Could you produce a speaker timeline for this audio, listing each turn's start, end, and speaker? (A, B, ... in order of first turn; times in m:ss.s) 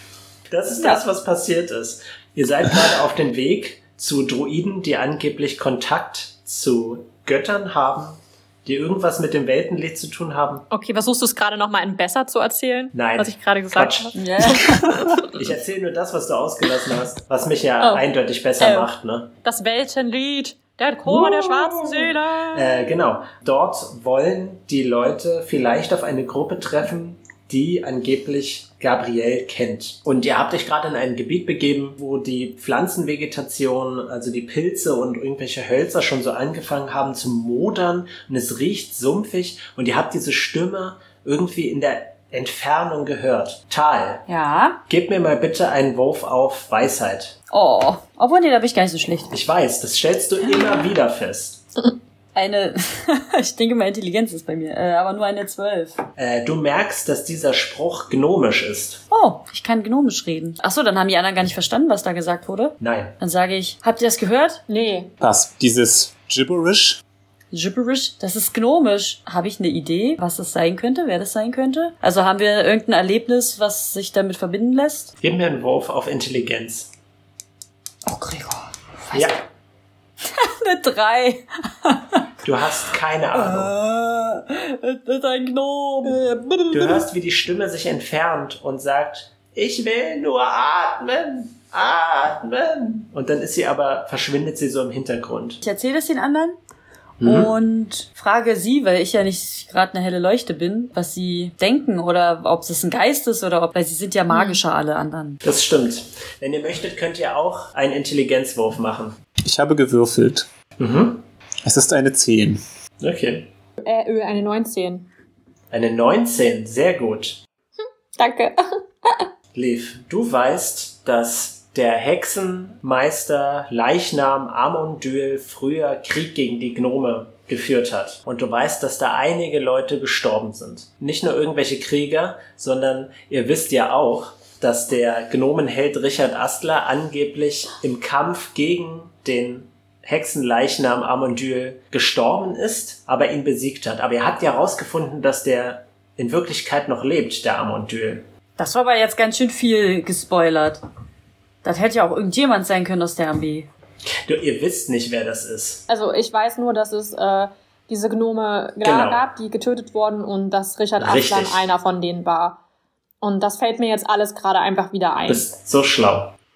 0:00.5-0:10.6 A
0:10.7-0:15.3 B
0:12.9-0:14.2 A
0:14.2-0:15.0 C
0:15.2-0:19.3 A
0:18.6-0:18.9 C
0:19.4-0:23.0 B
0:21.1-0:44.3 A
0:44.3-0:44.8 C
0:44.9-0:47.4 A
0:47.5-0:49.3 C
0:49.3-0:51.7 A
0:52.4-0:56.0 C
0:56.2-0:59.0 A
0:59.1-1:04.6 C
1:02.8-1:03.2 A
1:04.7-1:05.1 B
1:05.2-1:07.0 D
1:07.5-1:15.1 C
1:15.2-1:16.9 A
1:18.1-1:19.3 C
1:20.2-1:22.3 C
1:22.4-1:23.7 A
1:23.3-1:26.2 C
1:26.2-1:26.9 D
1:26.7-1:35.6 A
1:35.6-1:36.6 C
1:37.2-1:37.5 A
1:37.2-1:45.4 C
1:44.3-1:44.6 B
1:45.4-1:49.2 A
1:49.4-1:50.5 D
1:50.8-1:51.2 A
1:51.6-1:52.6 D
1:53.0-1:53.5 A
1:53.8-1:55.1 B
1:55.7-1:57.4 A
1:58.2-1:59.3 B
1:59.5-2:28.3 A
2:28.6-2:30.8 C
2:31.6-2:33.7 C
2:34.3-2:35.8 A
2:35.9-2:42.6 B
2:38.8-2:39.2 A
2:41.0-2:41.6 A
2:43.2-2:45.4 B
2:45.3-2:46.3 A